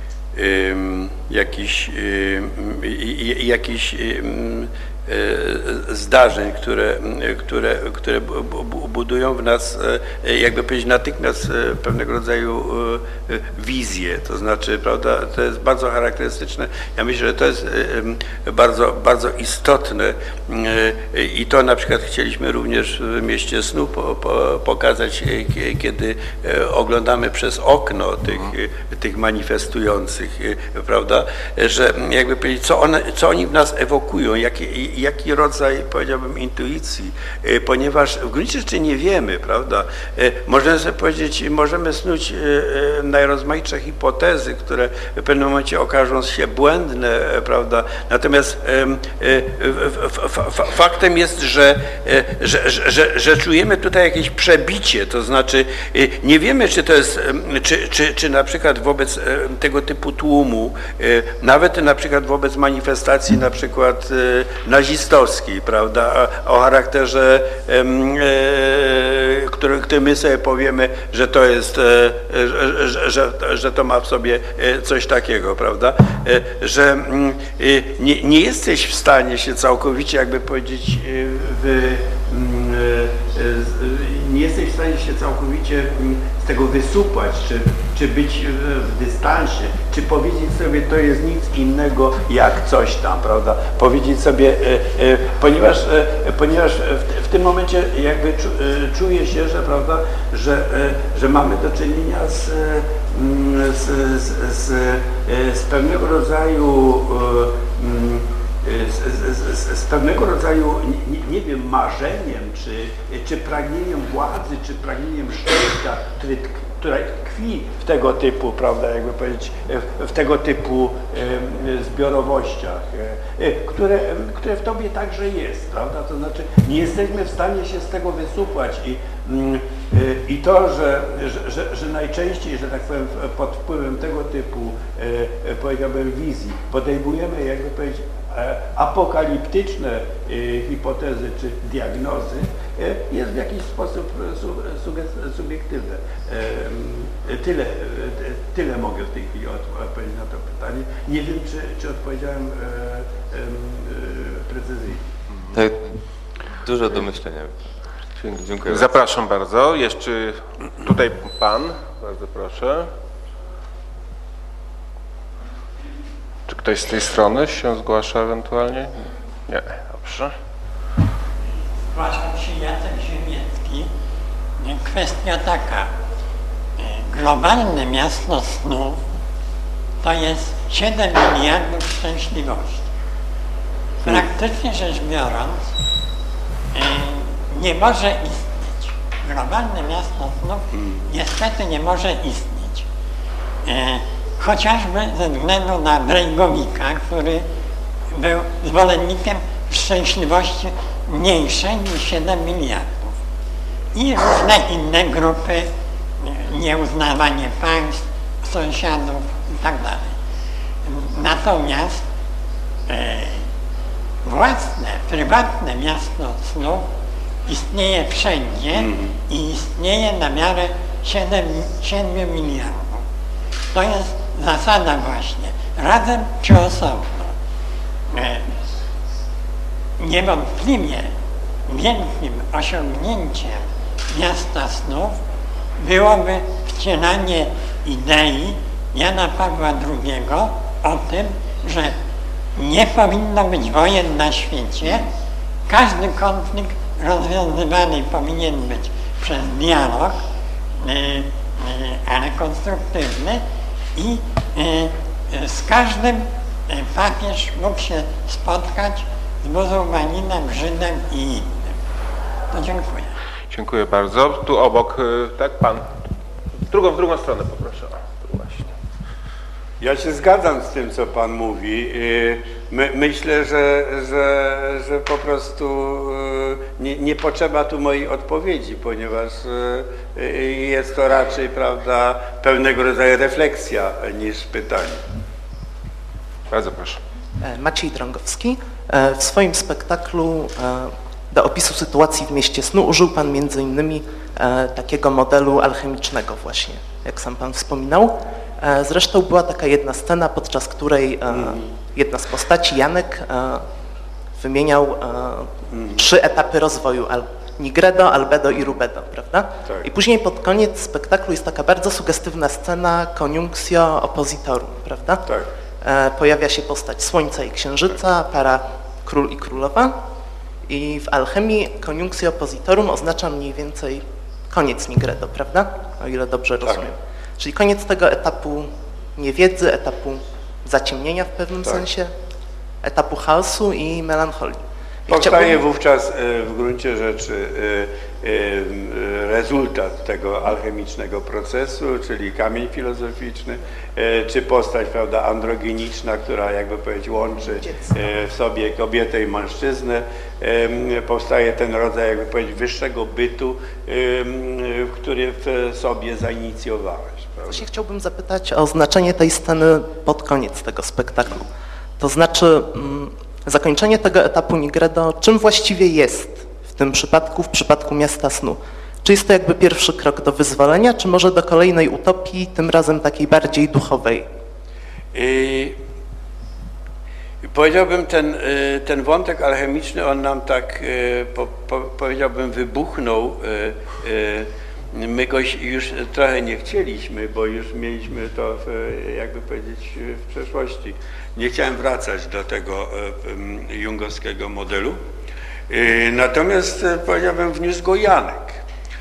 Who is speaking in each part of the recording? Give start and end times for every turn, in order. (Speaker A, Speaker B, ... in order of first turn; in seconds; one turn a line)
Speaker A: 0.3-155.0
Speaker B: 155.5-156.0
Speaker B: 156.6-157.5
Speaker B: 158.2-159.1
Speaker C: 158.7-162.9
Speaker C: 166.5-170.3
Speaker D: 171.9-173.9
Speaker D: 174.6-175.9
Speaker D: 176.8-179.0
Speaker D: 180.0-182.8
Speaker D: 184.0-185.6
Speaker D: 186.7-192.8
Speaker A: 190.7-191.0
Speaker D: 193.6-197.4
Speaker D: 198.1-203.1
Speaker D: 203.9-205.7
Speaker D: 206.2-210.1
Speaker D: 210.8-212.0
Speaker D: 212.9-213.4
Speaker D: 214.2-216.9
Speaker D: 217.4-223.0
Speaker A: 218.7-219.1
Speaker D: 223.7-227.3
Speaker D: 228.1-228.5
Speaker D: 230.0-231.1
Speaker D: 231.7-235.2
Speaker D: 235.8-241.9
Speaker D: 242.6-245.1
Speaker D: 245.7-250.2
Speaker D: 250.8-253.4
Speaker D: 253.9-261.7
Speaker D: 262.5-263.1
Speaker C: 263.5-265.9
Speaker C: 266.7-268.7
Speaker A: 269.8-285.0
Speaker C: 286.5-287.0
Speaker E: 287.4-303.6
Speaker A: 301.3-301.6
Speaker E: 304.4-315.2
Speaker A: 305.7-306.0
Speaker E: 315.8-319.9
Speaker E: 320.7-332.1
Speaker E: 332.8-335.6
Speaker A: 335.1-357.6
Speaker E: 347.6-347.9
Speaker E: 357.5-361.5
Speaker E: 362.0-374.2
Speaker A: 375.1-375.8
Speaker A: 377.4-395.0
Speaker A: 395.7-398.6